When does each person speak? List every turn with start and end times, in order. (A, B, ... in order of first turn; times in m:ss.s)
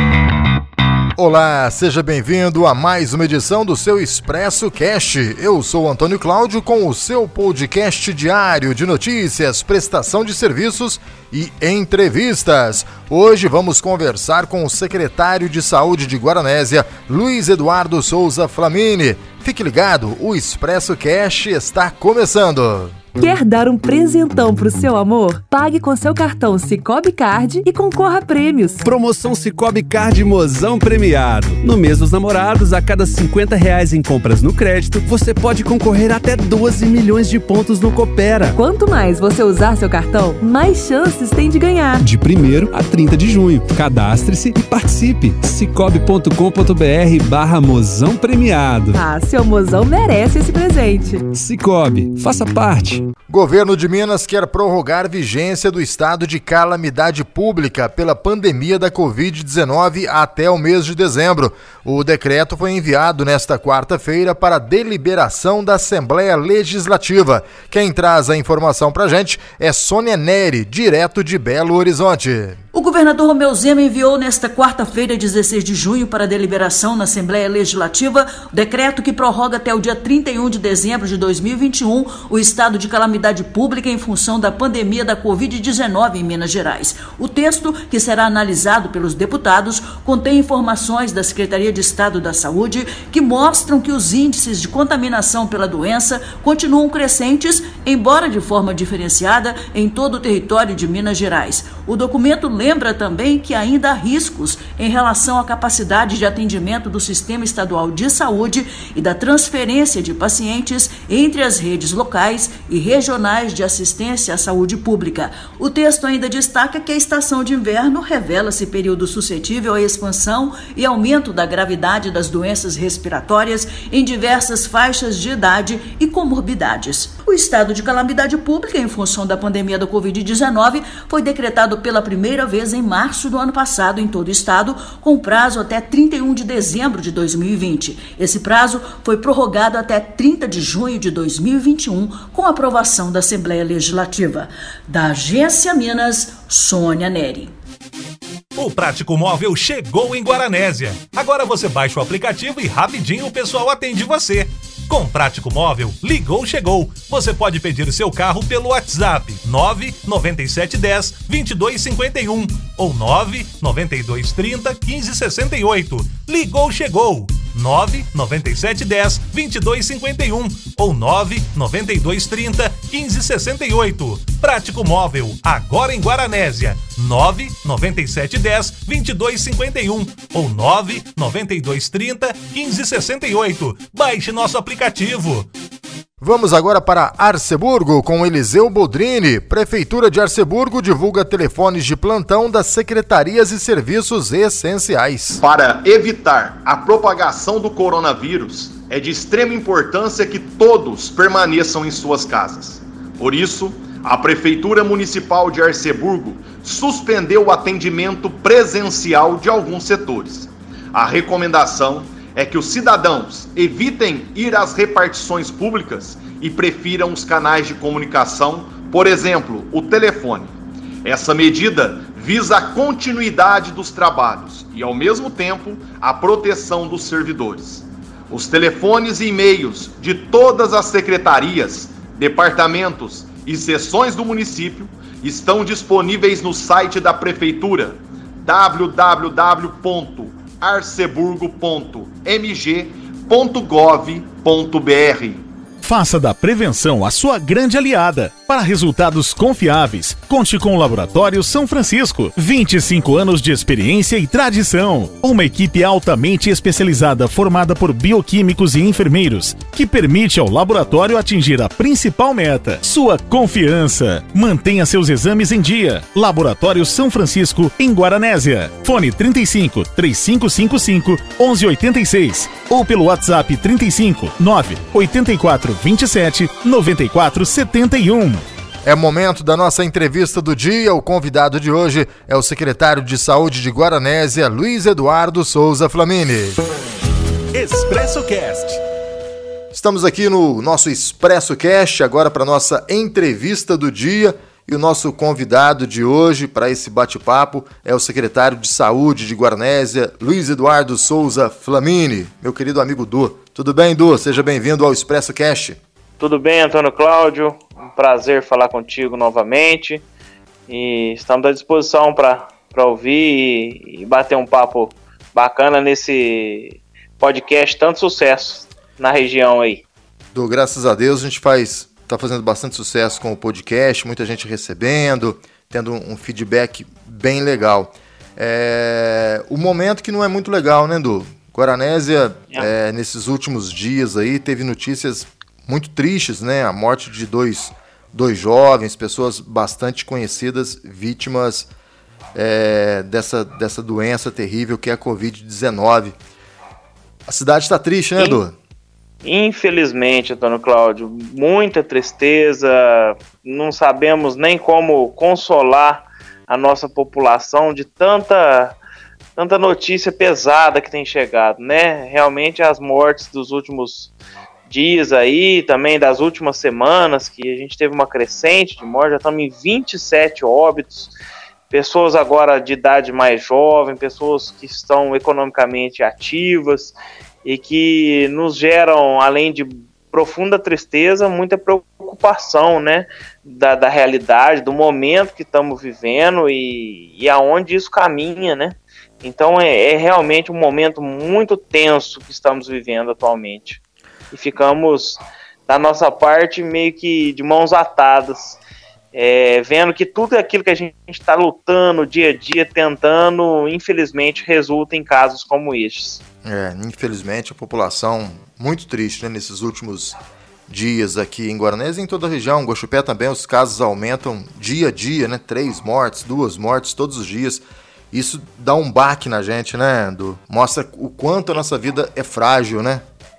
0:01.2-0:23.0 A
0:23.2-0:28.8 B
0:28.8-0:38.6 C
0:38.6-0:42.0 B
0:42.0-0:49.0 C
0:48.9-0:51.3 B
0:51.3-0:53.1 C
0:53.3-1:12.6 A
1:12.7-2:27.5 D
2:28.6-3:05.5 E
3:06.2-3:15.4 A
3:15.4-4:05.4 F
4:05.8-4:38.4 G
4:38.8-4:46.6 A
4:47.5-4:48.8 E
4:49.7-5:05.8 A
5:06.2-5:10.0 H
5:10.7-5:19.8 H
5:20.3-5:41.7 A
5:42.3-5:46.1 A
5:47.3-5:48.6 A
5:49.2-5:58.8 H
5:59.4-6:04.1 H
6:04.7-6:11.1 H
6:11.7-6:33.8 H
6:34.3-6:38.6 H
6:39.1-6:46.2 H
6:46.4-6:50.2 A
6:50.7-7:03.0 A